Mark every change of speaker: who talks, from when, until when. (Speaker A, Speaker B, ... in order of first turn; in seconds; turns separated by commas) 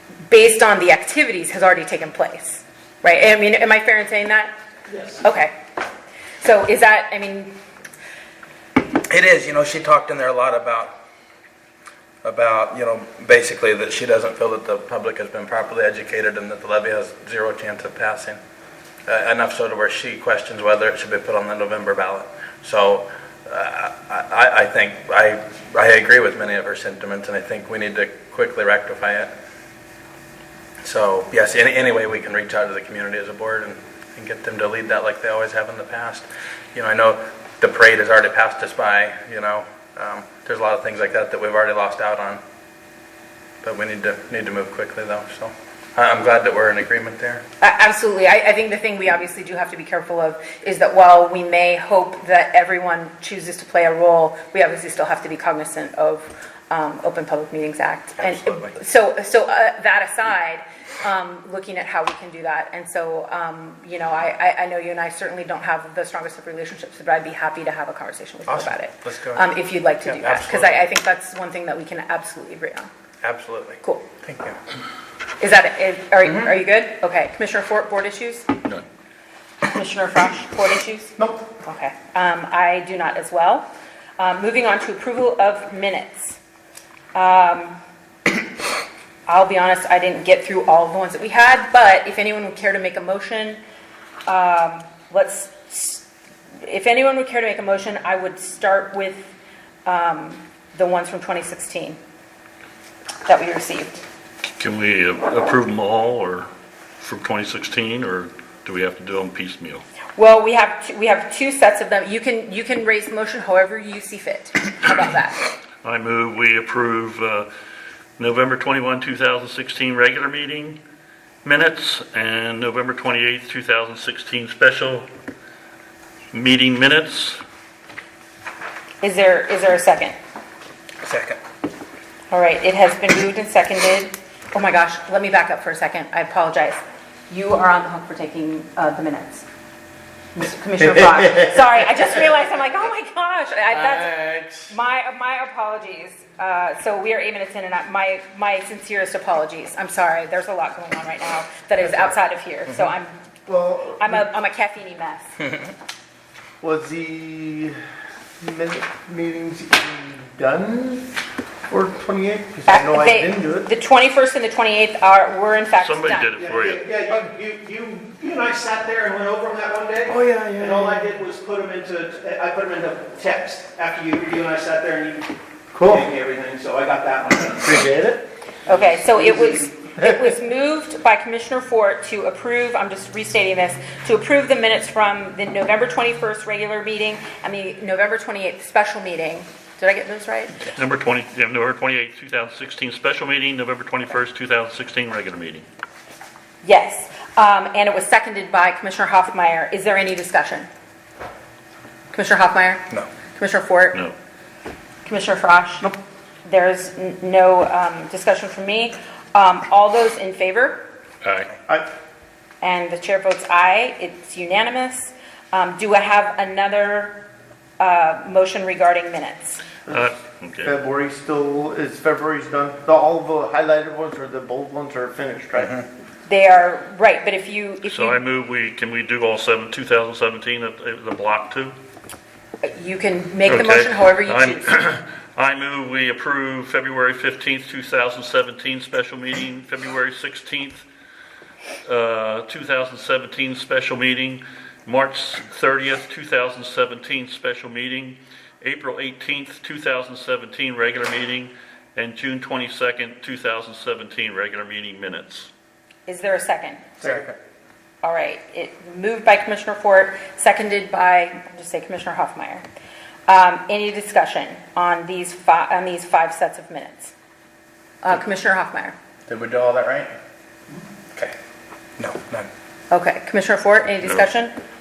Speaker A: 0.3-4.5, Speaker A: 5.2-5.5, Speaker A: 6.4-7.5, Speaker B: 9.1-10.9, Speaker B: 12.2-18.4, Speaker B: 19.1-29.3, Speaker B: 30.8-42.4, Speaker B: 43.6-47.4, Speaker A: 47.6-72.9, Speaker B: 58.2-58.8, Speaker B: 68.5-69.5, Speaker B: 70.0-70.8, Speaker B: 73.2-74.6, Speaker A: 73.8-74.1, Speaker A: 75.4-78.5, Speaker A: 79.7-83.7, Speaker A: 84.2-86.4, Speaker A: 87.1-87.8, Speaker A: 89.3-93.6, Speaker A: 94.3-96.0, Speaker A: 96.6-99.3, Speaker A: 99.8-102.0, Speaker A: 103.3-104.0, Speaker C: 104.6-106.5, Speaker C: 107.0-109.8, Speaker A: 110.2-115.4, Speaker C: 115.8-117.5, Speaker C: 118.2-120.8, Speaker C: 121.4-125.1, Speaker C: 126.3-127.4, Speaker A: 129.0-130.2, Speaker B: 131.0-131.4, Speaker A: 132.3-139.5, Speaker A: 140.3-153.2, Speaker D: 153.5-154.3, Speaker A: 154.0-155.4, Speaker D: 156.6-157.8, Speaker D: 158.4-161.1, Speaker D: 161.7-163.7, Speaker A: 162.7-166.3, Speaker C: 165.8-166.8, Speaker E: 166.4-175.3, Speaker D: 170.1-171.0, Speaker D: 175.7-176.1, Speaker E: 175.8-177.9, Speaker D: 177.6-178.3, Speaker A: 178.7-190.7, Speaker D: 179.1-179.5, Speaker C: 190.7-195.7, Speaker A: 196.6-200.7, Speaker A: 202.1-204.0, Speaker A: 205.1-205.9, Speaker A: 206.4-210.9, Speaker C: 211.2-211.5, Speaker A: 212.6-217.2, Speaker A: 217.8-219.6, Speaker C: 219.9-220.7, Speaker D: 220.6-225.8, Speaker A: 226.3-228.2, Speaker C: 227.9-231.8, Speaker A: 232.6-234.7, Speaker C: 233.4-240.8, Speaker C: 241.8-255.5, Speaker A: 256.1-257.0, Speaker B: 257.0-257.3, Speaker A: 258.0-262.6, Speaker A: 263.3-267.1, Speaker A: 268.0-269.0, Speaker B: 269.3-270.1, Speaker B: 272.0-272.5, Speaker A: 272.9-274.5